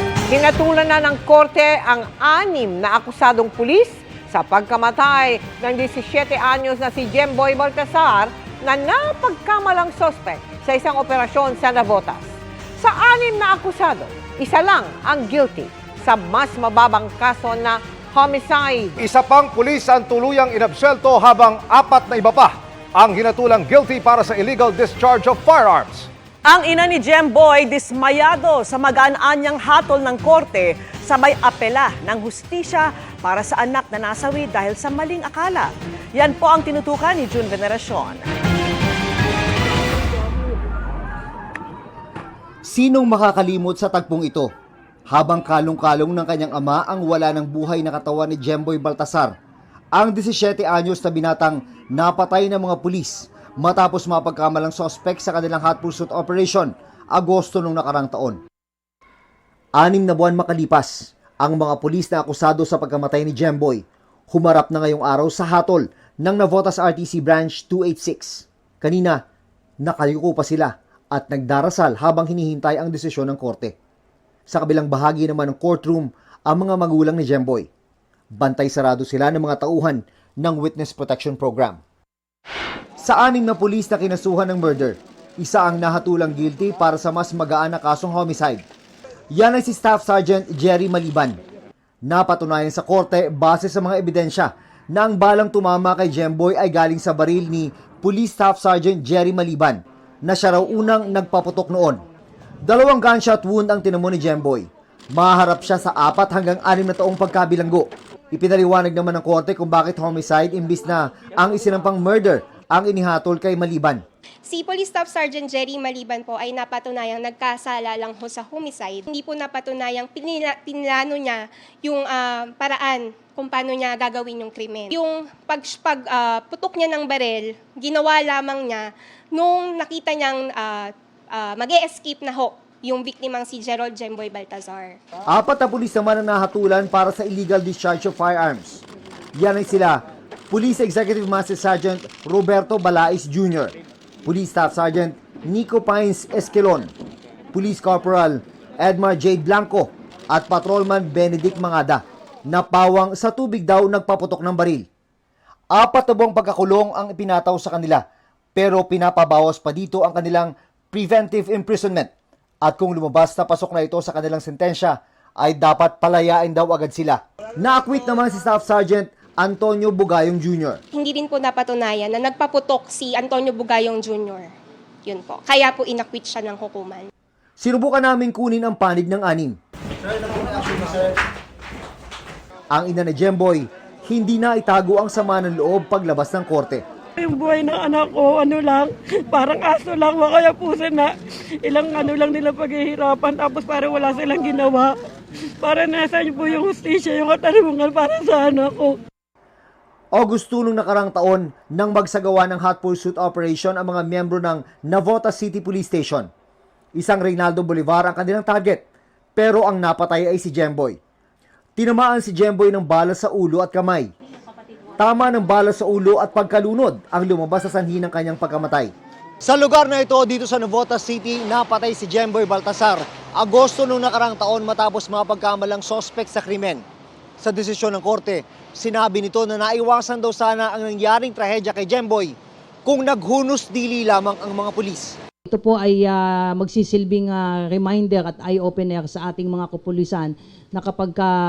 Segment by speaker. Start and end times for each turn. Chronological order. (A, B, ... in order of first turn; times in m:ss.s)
0:00.3-0:19.0 A
0:19.0-0:26.1 B
0:26.4-0:38.2 C
0:42.7-0:44.5 D
0:45.1-0:49.3 D
0:50.0-0:58.4 D
0:59.8-1:09.2 D
1:09.8-1:13.8 D
1:14.5-1:17.7 D
1:18.4-1:21.8 D
1:23.0-1:28.6 D
1:29.3-1:31.4 D
1:32.1-1:42.0 D
1:42.6-1:54.0 D
1:54.5-2:15.0 E
2:15.3-2:18.8 D
2:19.4-2:23.7 D
2:24.3-2:26.9 D
2:27.5-2:34.9 D
2:35.7-2:38.0 D
2:38.6-2:42.1 D
2:42.6-2:50.8 D
2:50.9-2:54.5 E
2:55.1-2:57.1 E
2:57.6-2:59.6 D
3:02.7-3:06.8 D
3:07.2-3:11.1 F
3:11.6-3:14.9 F
3:15.6-3:19.0 F
3:20.2-3:26.3 D
3:27.0-3:28.8 D
3:29.4-3:31.0 D
3:31.8-3:34.1 D
3:35.0-3:46.8 D
3:47.4-3:52.4 D
3:52.9-3:55.2 D
3:55.5-4:01.3 G